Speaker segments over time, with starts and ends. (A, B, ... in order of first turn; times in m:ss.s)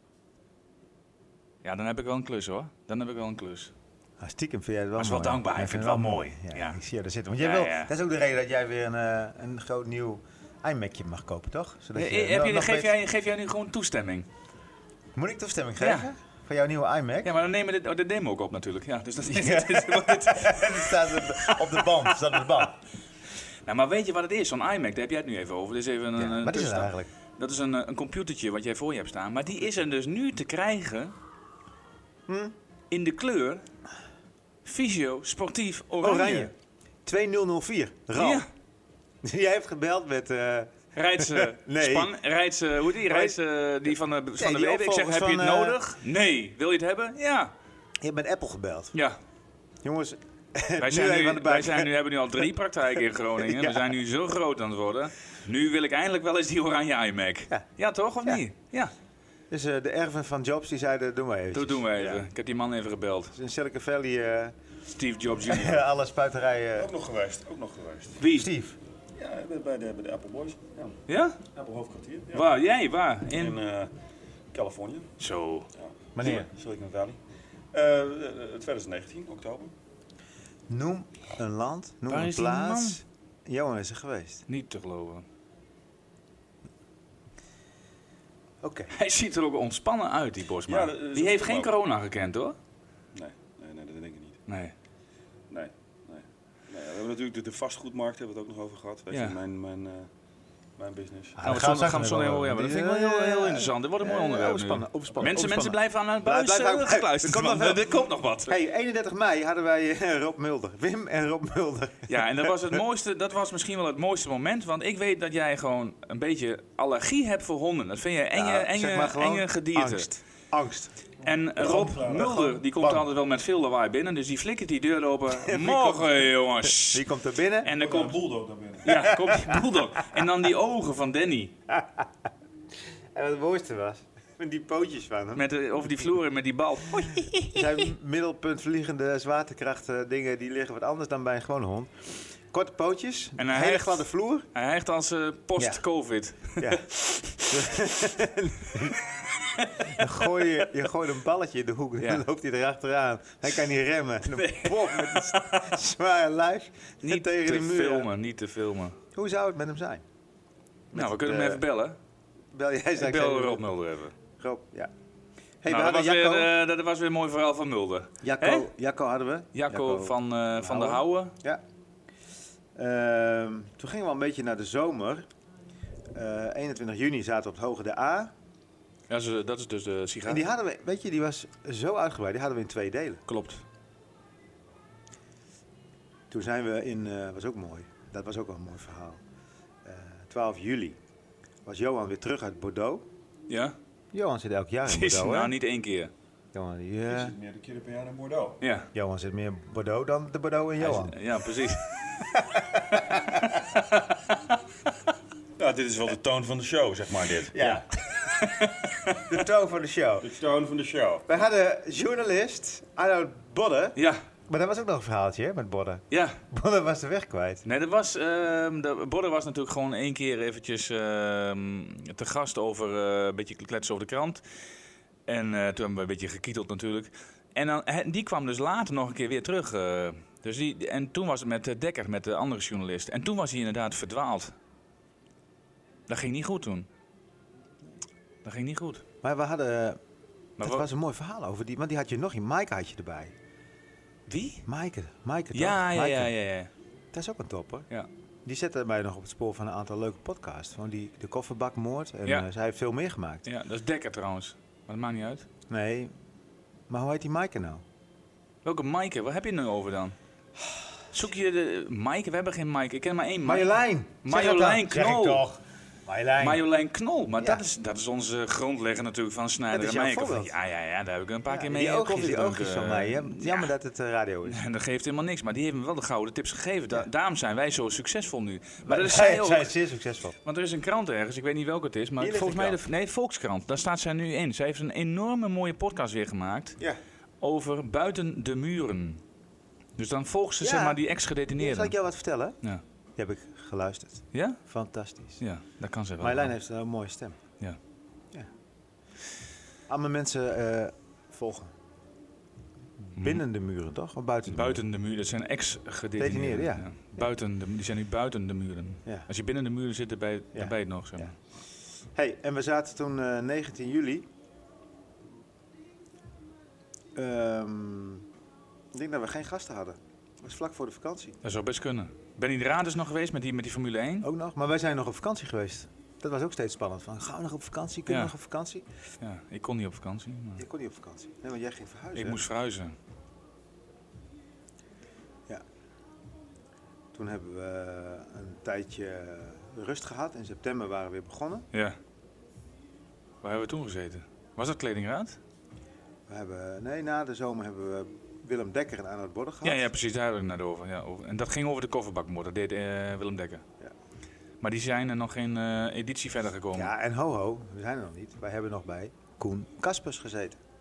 0:01.6-0:03.7 A
0:04.2-0:13.0 B
0:05.0-0:06.8 A
0:07.4-0:07.9 A
0:11.9-0:14.3 A
0:15.2-0:17.3 B
0:15.8-0:16.1 A
0:17.2-0:22.2 A
0:19.2-0:22.8 B
0:23.6-0:31.1 A
0:26.2-0:27.1 B
0:32.3-0:32.5 B
0:32.9-0:33.6 A
0:34.6-0:36.5 A
0:36.0-0:36.5 B
0:37.0-0:38.4 B
0:38.2-0:38.5 A
0:39.2-0:42.1 B
0:40.9-0:47.5 A
0:43.0-0:43.4 B
0:44.4-0:45.8 B
0:48.0-0:48.9 B
0:48.9-0:49.2 A
0:49.8-0:51.9 B
0:50.8-0:58.9 A
0:53.4-0:53.9 B
0:59.5-1:02.2 B
1:01.5-1:03.3 A
1:03.3-1:04.6 B
1:04.9-1:05.8 A
1:05.4-1:06.9 B
1:06.8-1:08.2 C
1:08.2-1:08.5 A
1:08.3-1:08.8 B
1:09.2-1:11.0 C
1:11.1-1:11.4 A
1:11.5-1:12.5 C
1:12.3-1:13.6 A
1:13.3-1:13.9 C
1:14.5-1:15.1 C
1:15.2-1:15.7 A
1:15.8-1:17.2 C
1:16.2-1:16.5 B
1:17.7-1:19.7 C
1:20.7-1:24.4 B
1:22.1-1:23.0 A
1:24.5-1:25.2 A
1:28.6-1:28.9 B
1:28.9-1:32.6 A
1:30.7-1:31.7 C
1:33.1-1:34.4 C
1:34.5-1:34.7 A
1:35.5-1:40.1 C
1:39.1-1:39.4 A
1:40.8-1:41.4 C
1:41.4-1:52.3 B
1:41.4-1:48.6 A
1:52.1-2:00.1 A
1:58.3-2:00.9 B
2:01.2-2:07.1 A
2:01.6-2:02.5 C
2:02.1-2:03.1 B
2:05.3-2:07.7 B
2:07.6-2:08.2 A
2:07.7-2:08.9 C
2:08.8-2:11.6 A
2:08.8-2:10.0 B
2:11.7-2:12.1 B
2:13.1-2:15.4 B
2:15.3-2:17.5 A
2:17.0-2:24.5 B
2:23.4-2:27.5 A
2:25.6-2:25.8 B
2:26.5-2:29.0 B
2:29.4-2:30.0 A
2:29.8-2:38.1 B
2:34.3-2:35.7 A
2:37.0-2:39.0 A
2:39.1-2:40.0 B
2:40.9-2:42.0 A
2:40.9-2:41.6 B
2:42.5-2:43.6 B
2:43.0-2:44.1 A
2:44.3-2:44.9 B
2:45.6-2:46.5 B
2:45.7-2:48.7 A
2:48.2-2:51.6 B
2:49.5-2:51.3 A
2:52.8-2:55.2 B
2:56.1-2:58.3 B
2:59.1-3:00.5 A
3:00.2-3:03.2 B
3:03.2-3:03.6 A
3:06.3-3:09.2 B
3:09.8-3:11.0 B
3:11.6-3:13.1 B
3:13.5-3:13.8 A
3:14.1-3:15.6 B
3:14.9-3:16.1 A
3:16.5-3:17.3 B
3:17.1-3:18.6 C
3:18.6-3:18.9 A
3:18.9-3:21.2 B
3:20.8-3:22.1 A
3:22.2-3:23.5 B
3:23.6-3:24.0 A
3:25.6-3:27.8 C
3:27.5-3:27.9 B
3:28.3-3:29.3 A
3:29.3-3:30.3 B
3:30.2-3:31.3 C
3:31.3-3:37.6 B
3:34.0-3:34.2 A
3:36.1-3:36.4 A
3:37.6-3:44.4 A
3:45.3-3:54.5 A
3:56.1-3:56.9 A
3:58.4-3:59.0 A
3:59.2-4:00.0 B
4:00.6-4:03.3 B
4:00.6-4:00.8 A
4:04.3-4:04.6 A
4:04.6-4:06.3 B
4:05.5-4:06.7 A
4:07.1-4:07.9 B
4:08.4-4:13.4 B
4:13.4-4:15.5 A
4:15.7-4:16.1 B
4:16.9-4:17.8 B
4:18.6-4:20.2 A
4:21.1-4:23.7 A
4:23.4-4:26.6 B
4:24.2-4:25.4 A
4:26.4-4:33.7 A
4:29.7-4:30.6 B
4:31.5-4:34.6 B
4:34.4-4:39.7 A
4:38.8-4:40.4 B
4:40.4-4:46.8 A
4:42.2-4:42.8 B
4:47.4-4:49.2 A
4:50.0-4:52.0 A
4:50.6-4:51.0 B
4:51.6-4:52.6 B
4:53.2-4:55.4 B
4:54.3-4:54.6 A
4:55.4-4:56.5 A
4:56.2-4:57.4 B
4:59.9-5:01.7 B
5:03.2-5:03.4 A
5:03.2-5:04.8 B
5:04.5-5:11.3 A
5:06.2-5:07.2 B
5:10.5-5:11.3 B
5:12.1-5:14.3 B
5:17.1-5:18.2 B
5:18.9-5:21.4 B
5:21.4-5:24.3 A
5:24.2-5:28.8 B
5:28.1-5:28.3 A
5:29.2-5:30.6 A
5:30.6-5:32.4 B
5:32.1-5:33.0 A
5:37.1-5:41.6 B
5:41.7-5:42.0 A
5:43.4-5:45.4 A
5:46.3-5:49.9 B
5:49.6-5:53.6 A
5:54.6-5:56.9 A
5:56.7-6:00.6 B